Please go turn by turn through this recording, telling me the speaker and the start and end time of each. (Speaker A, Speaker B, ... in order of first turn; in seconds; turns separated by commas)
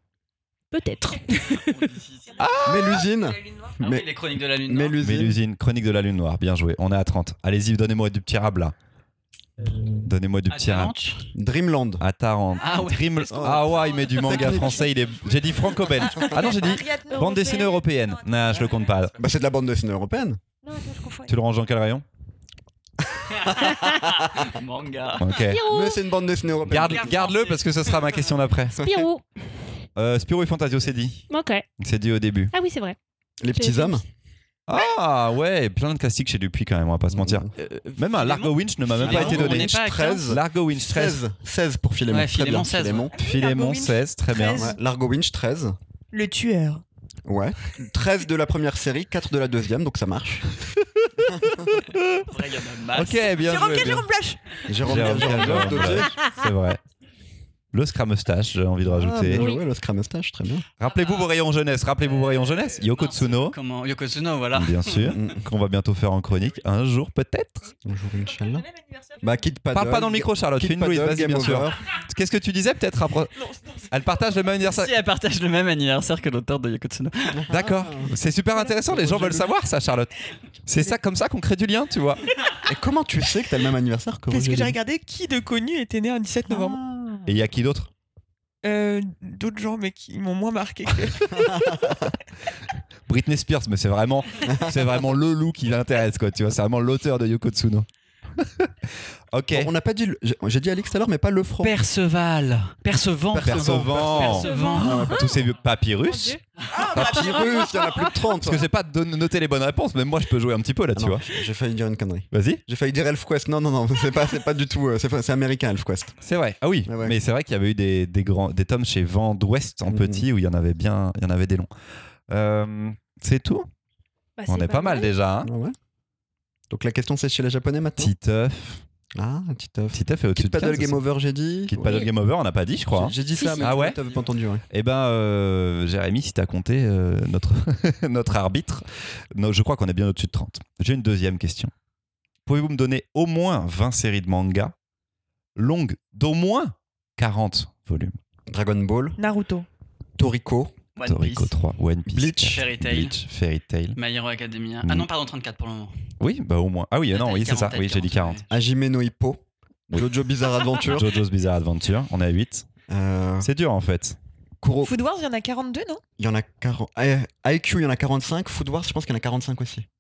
Speaker A: 0.7-1.9, Speaker B: 1.6-2.4, Speaker C: 2.4-3.0, Speaker D: 2.6-4.1, Speaker B: 3.8-5.0, Speaker D: 4.7-5.4, Speaker C: 5.0-8.8, Speaker C: 10.0-10.9, Speaker B: 10.5-11.3, Speaker D: 11.3-12.0, Speaker C: 12.0-19.2, Speaker B: 12.6-15.1, Speaker D: 13.3-14.8, Speaker E: 13.9-14.9, Speaker E: 16.0-19.0, Speaker D: 19.2-20.4, Speaker E: 20.6-21.3, Speaker C: 21.3-22.1, Speaker D: 23.1-24.6, Speaker B: 23.3-25.4, Speaker C: 25.2-25.6, Speaker A: 25.4-26.0, Speaker D: 25.6-27.2, Speaker B: 26.7-28.4, Speaker C: 26.7-28.8, Speaker A: 28.8-29.3, Speaker C: 30.0-31.2, Speaker A: 31.3-31.7, Speaker C: 31.8-32.5, Speaker A: 32.5-33.0, Speaker D: 33.4-34.0, Speaker A: 33.5-34.0, Speaker C: 34.7-41.2, Speaker D: 37.1-37.5, Speaker B: 37.6-40.4, Speaker D: 39.0-43.1, Speaker B: 42.1-43.1, Speaker E: 43.1-44.8, Speaker C: 43.2-44.7, Speaker D: 44.6-45.8, Speaker E: 46.1-46.8, Speaker D: 47.3-50.6, Speaker C: 50.8-52.3, Speaker D: 51.3-51.7, Speaker B: 52.2-53.4, Speaker C: 52.9-54.1, Speaker E: 53.4-55.1, Speaker D: 54.7-56.1, Speaker C: 54.8-56.8, Speaker C: 57.7-59.5, Speaker D: 58.8-60.7, Speaker C: 60.8-63.6, Speaker B: 60.8-61.2, Speaker B: 62.0-65.2, Speaker C: 64.5-67.7, Speaker D: 65.1-65.5, Speaker D: 67.8-68.7, Speaker D: 69.2-71.8, Speaker C: 69.7-74.9, Speaker B: 74.6-77.5, Speaker D: 77.3-78.2, Speaker C: 77.5-80.1, Speaker D: 78.7-79.5, Speaker C: 80.7-82.2, Speaker D: 82.6-84.8, Speaker E: 84.3-86.8, Speaker D: 86.5-87.3, Speaker C: 87.3-87.9, Speaker E: 88.6-92.0, Speaker D: 91.3-92.1, Speaker C: 93.1-97.9, Speaker D: 94.5-94.9, Speaker C: 98.4-98.7, Speaker C: 99.3-99.7, Speaker D: 99.5-101.8, Speaker B: 101.6-105.1, Speaker D: 103.3-105.4, Speaker C: 103.4-106.4, Speaker A: 104.2-105.4, Speaker A: 106.0-106.4, Speaker D: 106.8-108.7, Speaker C: 106.9-107.5, Speaker A: 107.4-108.1, Speaker C: 108.4-111.2, Speaker D: 111.0-116.2, Speaker C: 112.3-112.6, Speaker C: 116.2-121.7, Speaker D: 116.9-117.2, Speaker D: 119.9-120.2, Speaker C: 122.3-123.7, Speaker A: 124.4-125.1, Speaker C: 124.5-125.5, Speaker D: 125.4-125.8, Speaker D: 126.7-128.1, Speaker C: 128.0-128.8, Speaker D: 129.2-132.0, Speaker C: 129.9-131.0, Speaker C: 131.7-134.0, Speaker D: 132.9-134.6, Speaker E: 133.4-133.8, Speaker C: 134.7-141.7, Speaker C: 142.5-144.7, Speaker C: 145.6-148.2, Speaker D: 148.5-149.2, Speaker E: 149.2-149.7, Speaker D: 150.2-150.8, Speaker B: 151.0-151.5, Speaker C: 151.0-154.0, Speaker D: 152.1-152.5, Speaker B: 152.2-153.2, Speaker B: 154.0-156.1, Speaker C: 156.2-158.4, Speaker B: 157.1-158.5, Speaker D: 158.5-161.2, Speaker C: 160.8-162.7, Speaker D: 162.9-163.5, Speaker C: 163.4-164.2, Speaker D: 164.6-165.0, Speaker E: 164.8-166.0, Speaker D: 166.2-169.9